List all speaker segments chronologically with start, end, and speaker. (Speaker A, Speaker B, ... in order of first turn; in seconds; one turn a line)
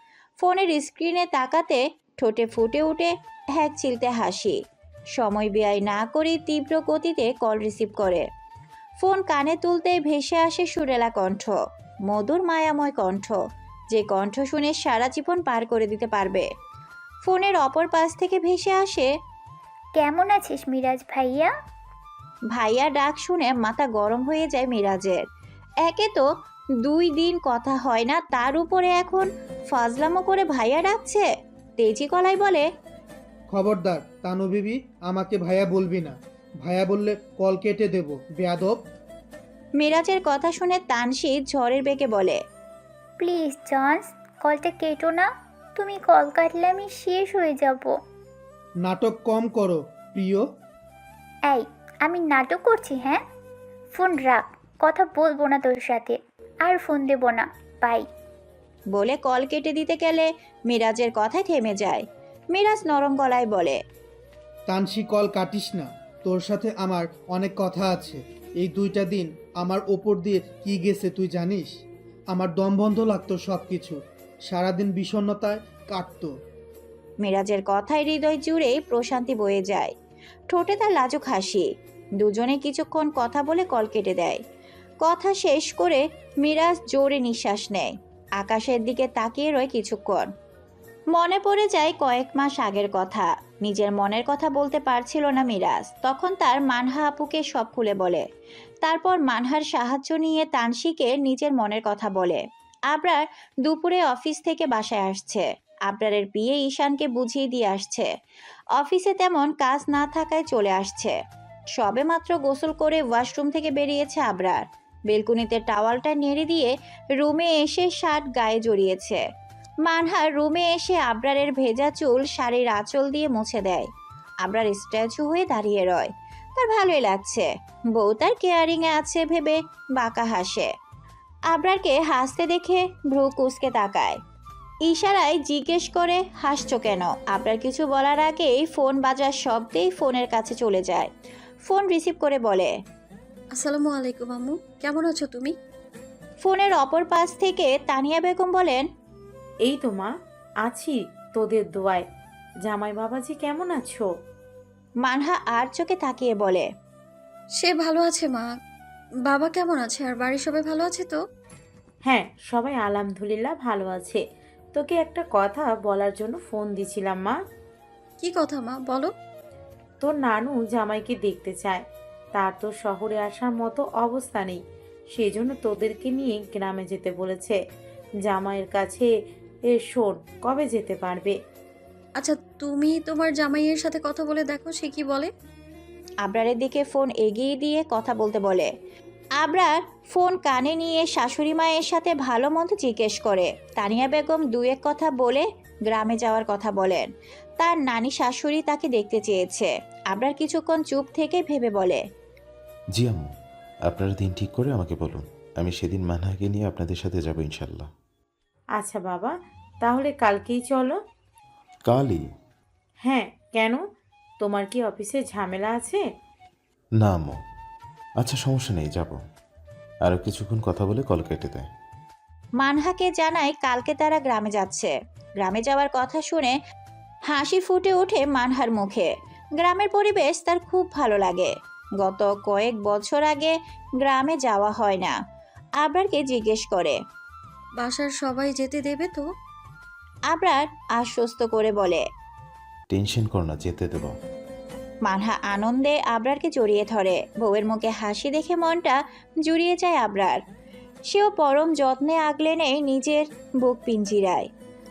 Speaker A: 0.4-4.6
Speaker A: 5.2-8.2
Speaker A: 9.0-11.6
Speaker A: 12.1-13.4
Speaker A: 13.9-16.5
Speaker A: 17.2-19.1
Speaker B: 20.0-21.5
Speaker A: 22.5-25.2
Speaker A: 25.8-26.3
Speaker A: 26.8-31.3
Speaker A: 31.8-32.7
Speaker C: 33.5-38.8
Speaker A: 39.8-42.4
Speaker B: 43.2-48.0
Speaker C: 48.8-50.5
Speaker B: 51.5-53.2
Speaker B: 53.9-58.1
Speaker A: 58.9-63.8
Speaker C: 64.7-71.7
Speaker C: 72.3-74.0
Speaker C: 74.5-76.3
Speaker A: 77.2-79.9
Speaker A: 80.5-81.7
Speaker A: 82.2-84.4
Speaker A: 85.0-90.3
Speaker A: 91.1-98.2
Speaker A: 98.8-108.1
Speaker A: 108.8-111.2
Speaker A: 111.8-119.2
Speaker A: 119.8-123.9
Speaker A: 124.4-130.7
Speaker A: 131.5-134.2
Speaker A: 134.8-141.1
Speaker A: 141.7-142.7
Speaker D: 143.5-145.5
Speaker A: 146.4-148.8
Speaker E: 149.6-150.1
Speaker E: 150.6-152.0
Speaker E: 152.6-154.1
Speaker A: 155.0-156.7
Speaker D: 157.6-158.5
Speaker D: 159.2-161.2
Speaker E: 162.1-164.2
Speaker E: 164.7-167.3
Speaker D: 168.2-169.1
Speaker E: 170.0-171.8
Speaker E: 172.3-174.6
Speaker E: 175.1-177.6
Speaker E: 178.2-179.1
Speaker E: 179.7-181.3
Speaker D: 182.2-185.3
Speaker A: 186.2-188.7
Speaker A: 189.4-197.1
Speaker A: 197.6-202.0
Speaker F: 202.9-203.3
Speaker F: 203.9-207.9
Speaker E: 208.8-209.3
Speaker E: 209.8-210.9
Speaker F: 211.8-212.2
Speaker E: 213.0-213.8
Speaker E: 214.4-216.0
Speaker F: 217.0-217.4
Speaker F: 218.2-219.2
Speaker F: 220.0-221.7
Speaker A: 222.6-226.5
Speaker A: 227.3-229.1
Speaker A: 229.6-235.2
Speaker A: 235.8-237.0
Speaker D: 237.8-239.2
Speaker A: 240.3-242.0
Speaker F: 242.9-244.1
Speaker A: 245.1-250.4
Speaker A: 251.1-254.5